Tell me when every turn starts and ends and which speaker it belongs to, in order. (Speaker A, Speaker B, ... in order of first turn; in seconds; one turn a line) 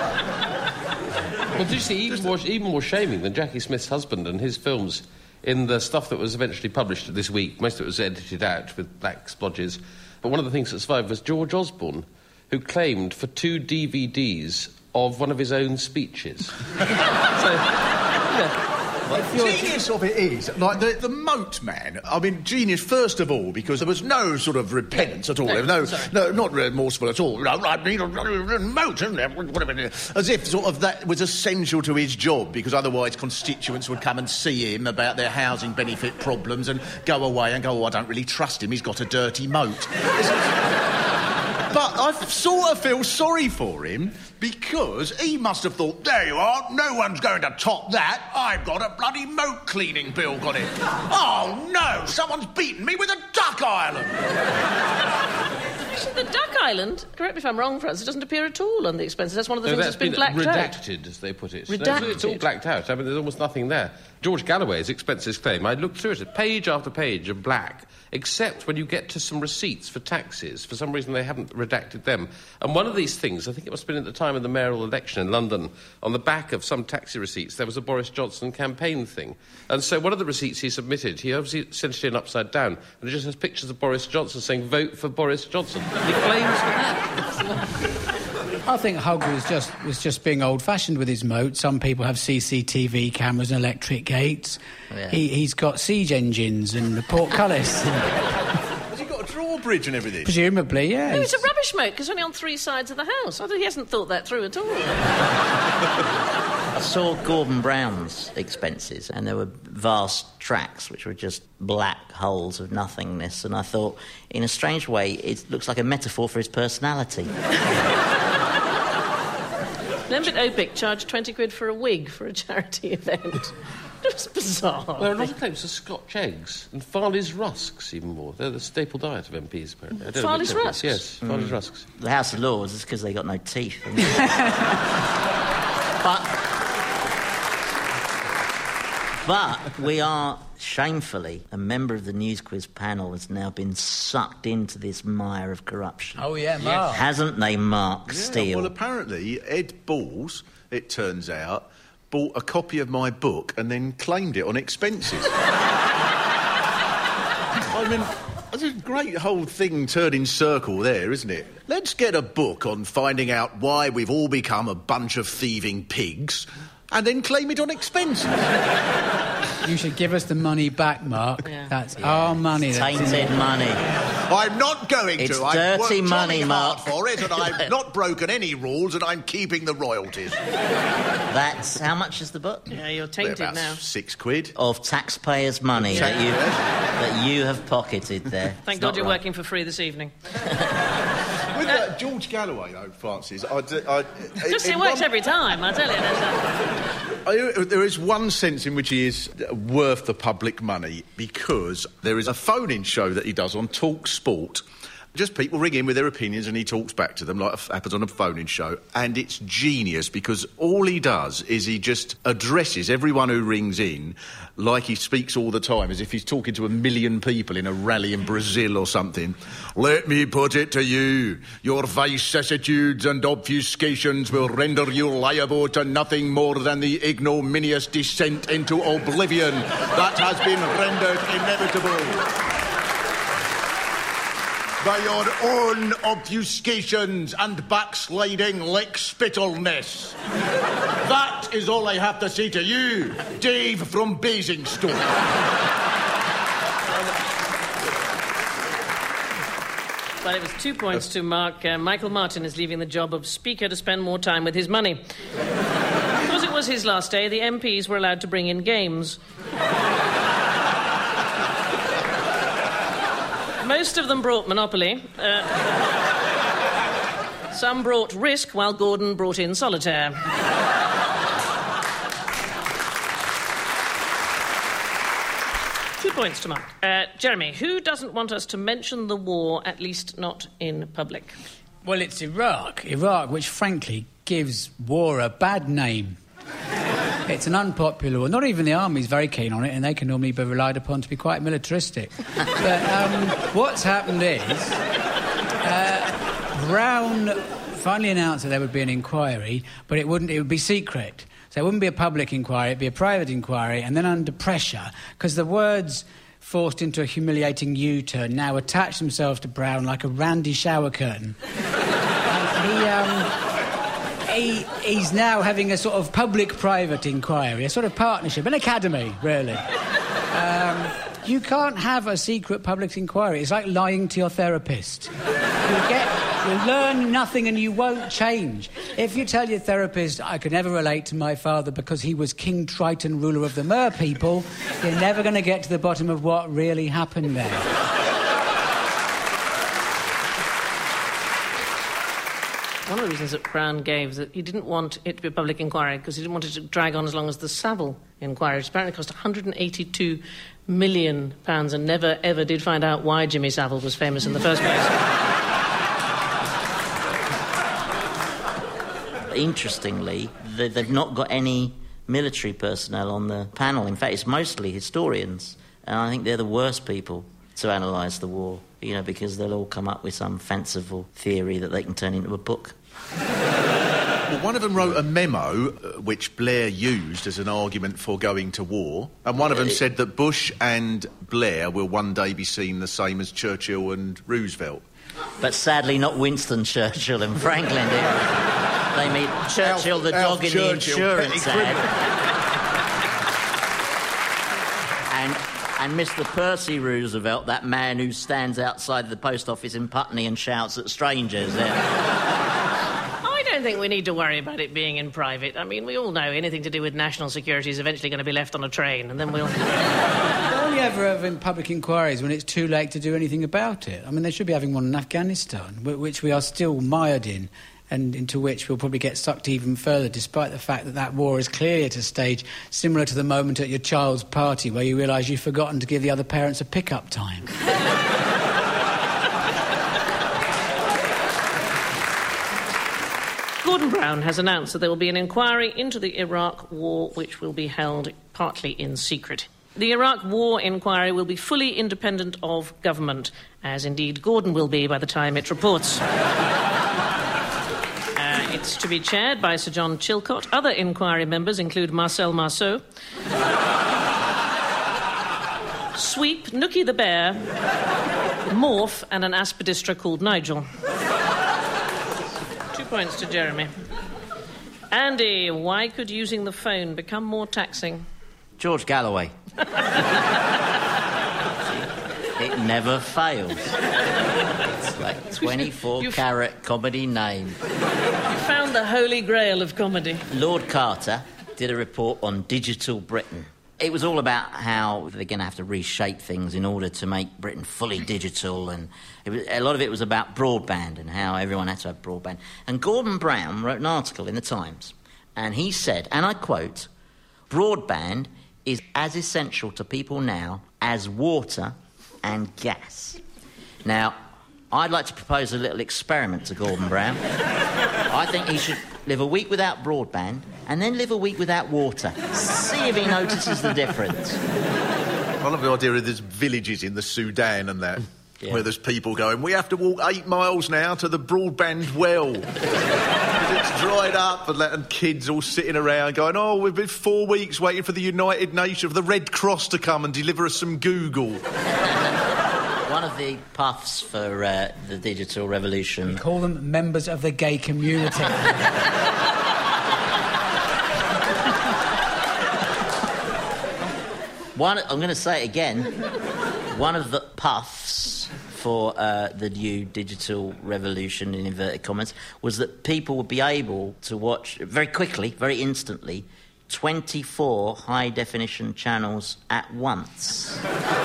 Speaker A: 1.5-16.6
Speaker B: 19.1-19.6
Speaker C: 19.1-40.6
Speaker D: 25.4-26.1
Speaker C: 41.7-54.3
Speaker D: 55.9-60.8
Speaker A: 59.6-87.3
Speaker D: 61.7-62.4
Speaker E: 88.7-98.2
Speaker B: 94.9-95.2
Speaker C: 98.9-100.4
Speaker E: 100.2-101.5
Speaker D: 101.1-105.1
Speaker B: 106.7-117.3
Speaker D: 120.1-125.3
Speaker A: 125.0-131.8
Speaker D: 130.1-131.0
Speaker B: 131.2-134.3
Speaker B: 136.0-136.4
Speaker B: 139.2-146.2
Speaker E: 146.2-147.1
Speaker B: 146.8-148.7
Speaker C: 148.1-155.3
Speaker C: 157.7-168.5
Speaker E: 169.6-173.3
Speaker D: 171.4-171.7
Speaker B: 172.1-173.8
Speaker C: 174.1-180.4
Speaker B: 175.2-176.9
Speaker B: 181.3-182.7
Speaker D: 182.7-183.8
Speaker C: 183.2-184.6
Speaker B: 184.6-189.2
Speaker C: 185.8-186.7
Speaker D: 188.6-190.1
Speaker C: 191.5-195.1
Speaker D: 194.5-196.6
Speaker C: 197.2-204.6
Speaker C: 205.1-232.2
Speaker C: 234.8-240.2
Speaker C: 241.0-245.2
Speaker D: 250.2-255.0
Speaker D: 256.2-259.2
Speaker D: 263.6-265.6
Speaker D: 267.5-270.2
Speaker D: 276.0-281.4
Speaker E: 281.8-286.2
Speaker E: 287.3-294.8
Speaker E: 295.6-311.4
Speaker E: 312.3-313.3
Speaker E: 314.3-319.6
Speaker E: 320.3-325.1
Speaker E: 325.6-337.7
Speaker D: 342.9-354.9
Speaker B: 359.3-372.8
Speaker C: 374.3-384.8
Speaker B: 379.5-379.8
Speaker B: 385.4-391.9
Speaker C: 389.6-392.0
Speaker B: 395.1-401.9
Speaker D: 403.2-409.6
Speaker E: 410.5-427.5
Speaker D: 433.6-446.0
Speaker D: 448.1-452.8
Speaker D: 455.9-457.5
Speaker D: 458.5-460.7
Speaker D: 462.7-463.7
Speaker D: 464.9-468.1
Speaker B: 468.6-469.3
Speaker B: 471.8-473.7
Speaker B: 474.8-477.6
Speaker D: 475.4-476.2
Speaker D: 478.3-480.2
Speaker B: 480.3-496.9
Speaker B: 497.5-503.2
Speaker B: 503.8-504.2
Speaker B: 504.7-507.2
Speaker B: 508.1-514.4
Speaker C: 515.4-522.6
Speaker C: 523.3-531.4
Speaker B: 532.8-536.2
Speaker E: 536.1-538.5
Speaker B: 544.5-546.0
Speaker B: 546.7-560.6